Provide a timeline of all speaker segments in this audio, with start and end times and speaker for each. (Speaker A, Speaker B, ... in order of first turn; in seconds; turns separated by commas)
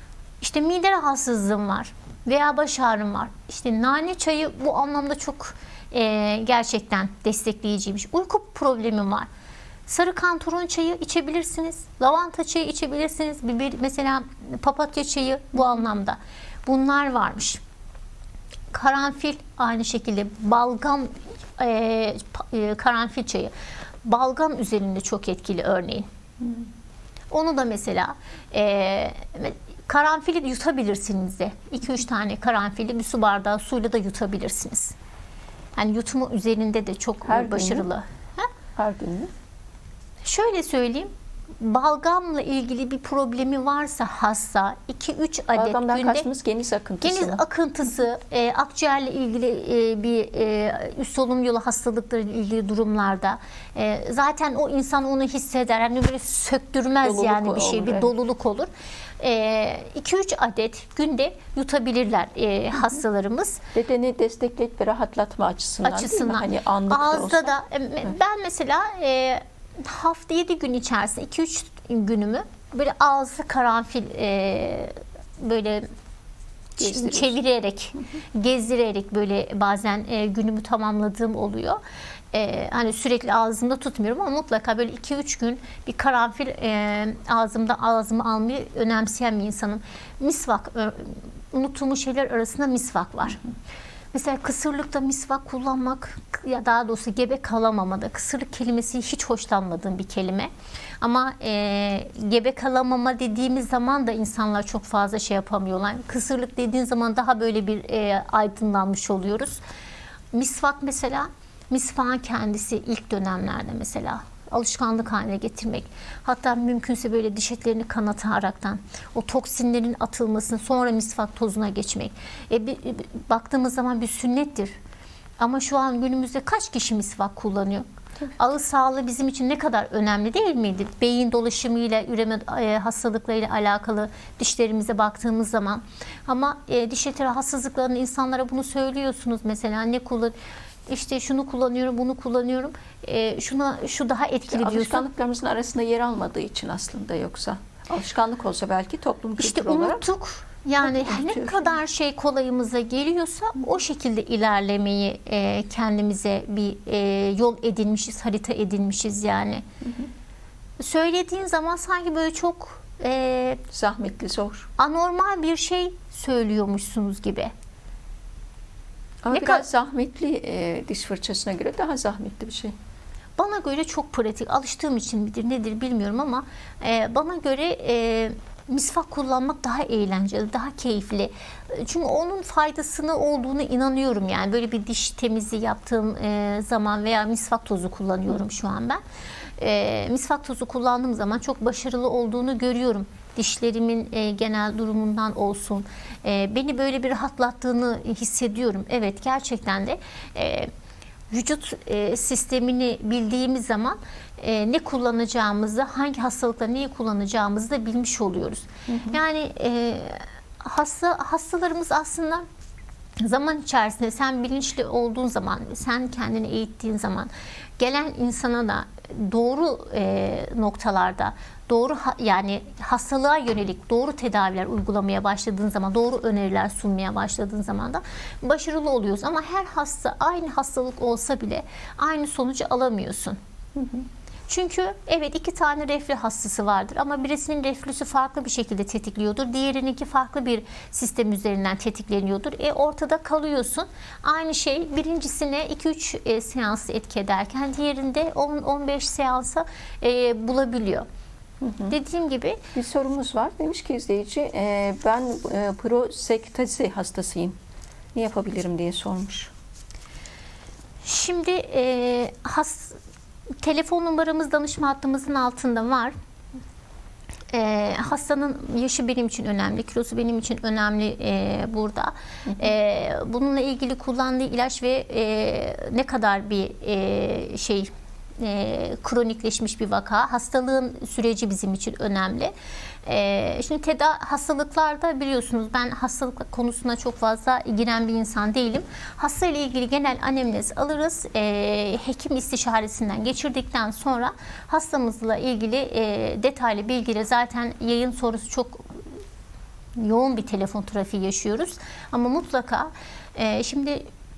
Speaker A: 0.4-9.3, Speaker A: 9.9-17.6, Speaker A: 18.7-23.5, Speaker A: 24.0-26.1, Speaker A: 27.3-34.9, Speaker A: 35.8-38.5, Speaker B: 37.2-37.9, Speaker B: 38.8-39.3, Speaker A: 40.2-46.3, Speaker B: 45.5-47.4, Speaker A: 47.0-63.6, Speaker B: 57.0-58.1, Speaker B: 63.7-67.5, Speaker A: 65.8-75.8, Speaker B: 76.8-77.3, Speaker A: 76.8-81.8, Speaker A: 82.3-93.4, Speaker A: 94.1-100.5, Speaker A: 101.0-109.6, Speaker A: 110.3-124.8, Speaker A: 125.4-140.3, Speaker A: 140.9-145.1, Speaker B: 144.5-150.0, Speaker A: 149.4-159.6, Speaker B: 150.9-151.6, Speaker B: 159.8-160.1, Speaker A: 160.8-163.6, Speaker B: 163.7-164.7, Speaker A: 164.8-167.5, Speaker B: 169.2-172.7, Speaker A: 169.3-169.6, Speaker A: 173.4-189.0, Speaker A: 189.6-200.7, Speaker A: 201.3-212.4, Speaker B: 208.9-209.2, Speaker A: 213.2-233.4, Speaker B: 233.8-234.0, Speaker A: 234.5-251.1, Speaker B: 251.6-251.9, Speaker A: 251.9-252.6, Speaker B: 252.7-257.6, Speaker B: 258.1-259.5, Speaker A: 261.0-263.0, Speaker A: 263.6-266.1, Speaker A: 267.5-282.5, Speaker A: 283.1-299.0, Speaker A: 300.0-304.0